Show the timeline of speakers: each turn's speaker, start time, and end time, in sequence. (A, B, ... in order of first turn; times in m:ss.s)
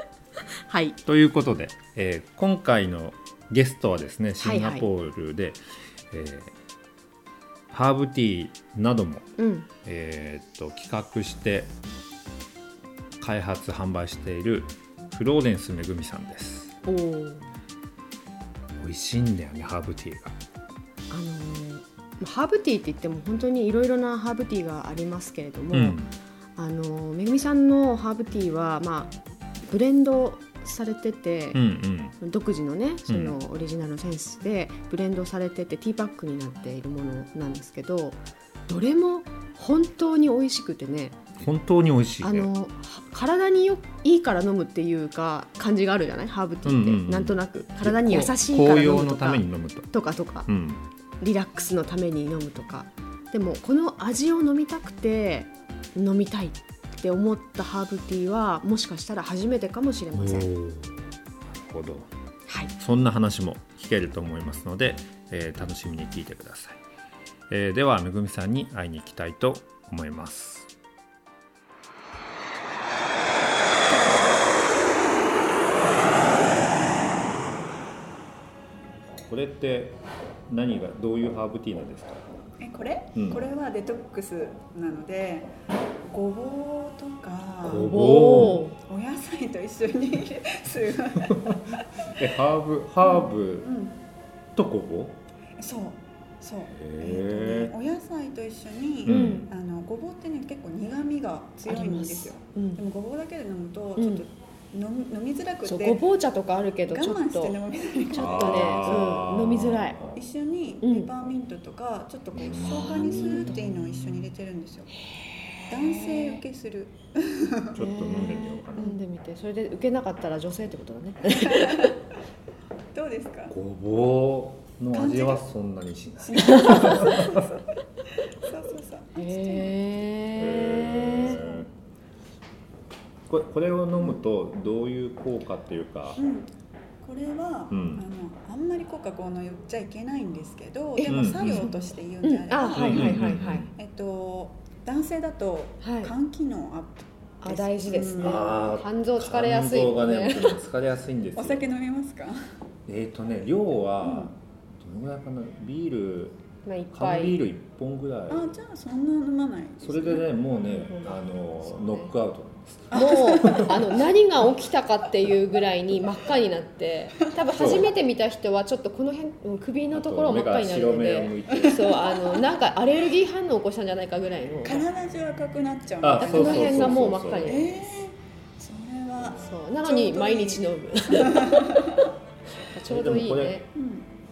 0:00.7-0:01.0 A
0:01.0-0:06.5 B
0:04.4-0:04.9 A
0:07.7-0:11.7 B
0:09.4-0:09.7 A
0:13.2-0:16.8 B
0:16.8-0:17.5 A
0:18.8-0:20.4 B
0:21.1-0:26.0 A
0:25.7-0:26.1 B
0:26.6-0:31.6 A
0:31.5-0:32.2 B
0:32.2-0:41.2 A
0:33.1-0:33.4 B
0:41.4-0:42.5 B
0:42.2-0:50.5 A
0:46.6-0:49.9 B
0:50.5-0:50.8 B
0:51.2-1:00.5 A
1:00.1-1:02.1 B
1:02.5-1:02.7 A
1:02.8-1:06.8 B
1:07.5-1:10.7 B
1:19.1-1:22.2 B
1:22.6-1:25.5 C
1:23.1-1:23.4 B
1:26.0-1:32.2 C
1:27.6-1:28.6 B
1:27.6-1:28.8 A
1:31.3-1:31.5 B
1:32.1-1:33.7 B
1:33.0-1:34.0 C
1:34.5-1:35.2 B
1:35.6-1:46.0 C
1:36.7-1:37.7 B
1:39.0-1:39.4 B
1:39.1-1:39.5 A
1:41.7-1:42.8 A
1:44.0-1:44.2 A
1:45.6-1:47.6 A
1:46.9-1:49.3 C
1:48.1-1:50.0 A
1:48.1-1:50.2 B
1:50.1-1:54.9 C
1:50.8-1:51.1 A
1:52.3-1:53.7 B
1:52.6-1:53.7 A
1:55.0-1:56.4 A
1:55.7-1:57.8 C
1:57.7-1:58.9 B
1:57.7-2:01.9 A
2:01.3-2:02.0 C
2:02.9-2:03.5 C
2:03.5-2:07.5 B
2:04.9-2:05.4 C
2:06.2-2:07.6 C
2:06.6-2:07.0 A
2:08.2-2:09.8 C
2:09.2-2:11.4 A
2:10.4-2:11.7 B
2:11.2-2:11.7 C
2:13.3-2:16.2 B
2:16.2-2:16.5 C
2:17.0-2:28.5 C
2:17.7-2:18.0 B
2:21.0-2:23.7 A
2:21.1-2:21.7 B
2:22.8-2:23.7 B
2:25.8-2:26.1 A
2:27.4-2:30.6 A
2:28.1-2:31.7 B
2:31.3-2:32.4 C
2:32.9-2:36.4 B
2:34.0-2:34.3 C
2:36.6-2:37.4 A
2:36.9-2:38.6 B
2:38.3-2:40.3 C
2:39.8-2:43.8 B
2:40.6-2:42.1 A
2:42.9-2:44.0 C
2:42.9-2:54.8 A
2:47.5-2:47.9 B
2:49.9-2:52.0 B
2:51.5-2:52.4 C
2:54.6-3:02.1 C
2:56.0-2:57.7 B
2:56.2-2:57.7 A
2:59.2-2:59.4 B
2:59.4-3:03.6 A
3:02.8-3:03.6 B
3:03.7-3:04.1 C